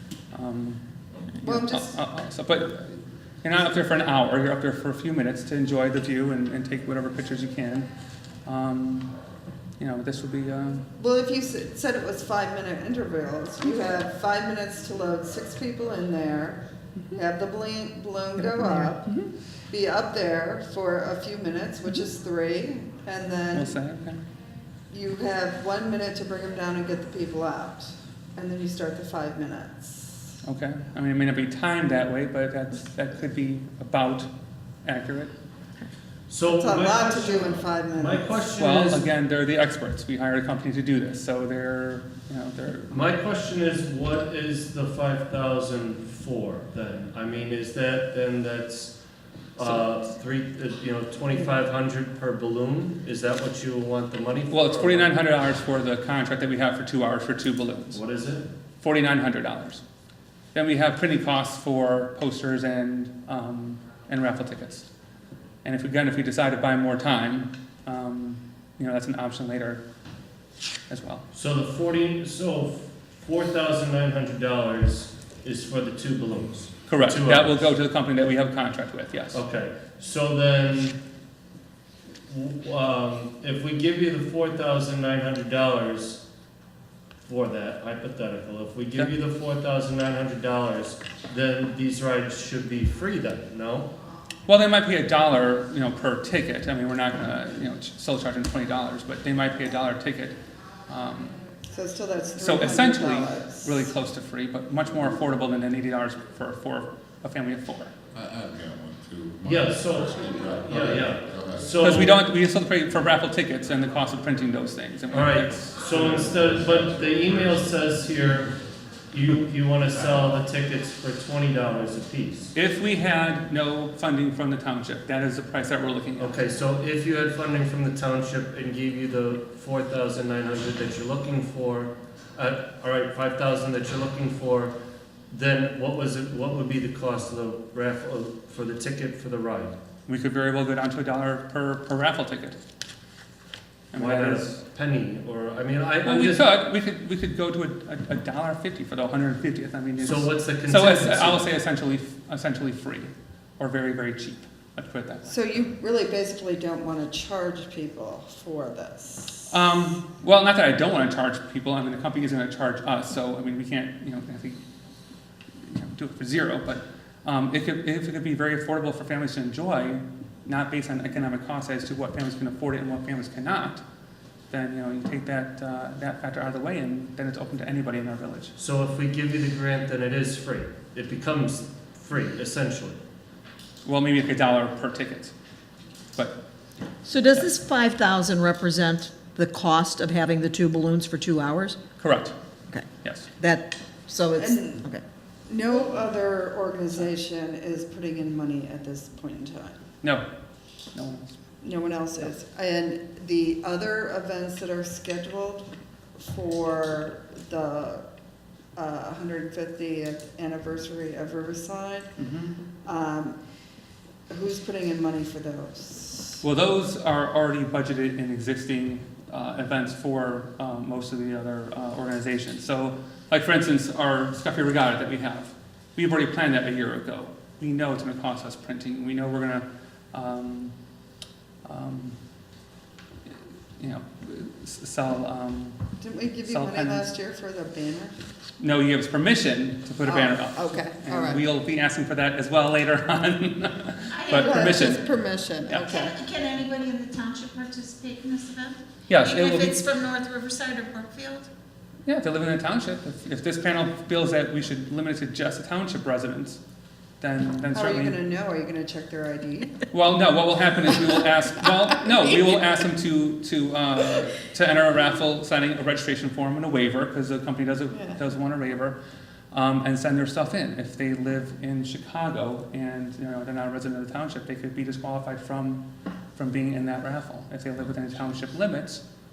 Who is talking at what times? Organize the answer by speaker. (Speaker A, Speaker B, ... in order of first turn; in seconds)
Speaker A: 0.3-0.8, 1.4-7.9, 8.4-9.1, 9.8-10.8, 18.4-19.3, 23.5-24.2, 30.4-34.3, 34.8-35.3, 38.6-43.1, 54.5-58.0, 58.8-59.8, 60.5-64.9, 65.6-69.8, 70.9-71.2, 76.9-79.4, 94.5-100.3, 100.9-101.3, 102.4-107.9, 111.8-116.0, 122.5-126.4, 140.1-142.6, 143.9-144.6, 146.0-155.3, 159.5-164.6, 165.7-173.8, 174.5-178.5, 183.8-185.3, 192.0-192.3, 193.0-193.3, 200.9-201.3, 212.2-212.6, 216.4-230.7, 231.6-232.2, 233.8-235.8, 236.5-237.1, 238.6-245.0, 245.7-245.9, 249.1-249.8, 252.1-256.6, 257.2-258.2, 259.9-268.9, 269.5-275.8, 276.4-279.0
Speaker B: 1.4-2.0, 11.0-23.8, 24.9-30.4, 36.4-38.5, 101.7-103.9, 155.2-159.5, 194.3-194.9, 195.5-199.8, 201.6-208.0, 208.8-212.1, 212.8-213.4, 214.3-216.4, 236.0-238.2, 240.1-241.4, 244.4-246.1, 257.7-259.8, 267.9-268.2
Speaker C: 36.3-39.1, 42.9-55.1, 57.9-58.5, 71.3-77.6, 79.3-81.0, 82.3-86.2, 87.2-93.9, 109.4-112.2, 115.1-122.5, 126.2-134.7, 135.3-139.7, 143.9-146.5, 150.0-151.5, 178.6-183.0
Speaker D: 108.1-112.0, 115.9-117.9, 120.1-120.3
Speaker E: 187.0-191.8, 193.4-195.0
Speaker F: 244.1-244.7, 245.8-251.5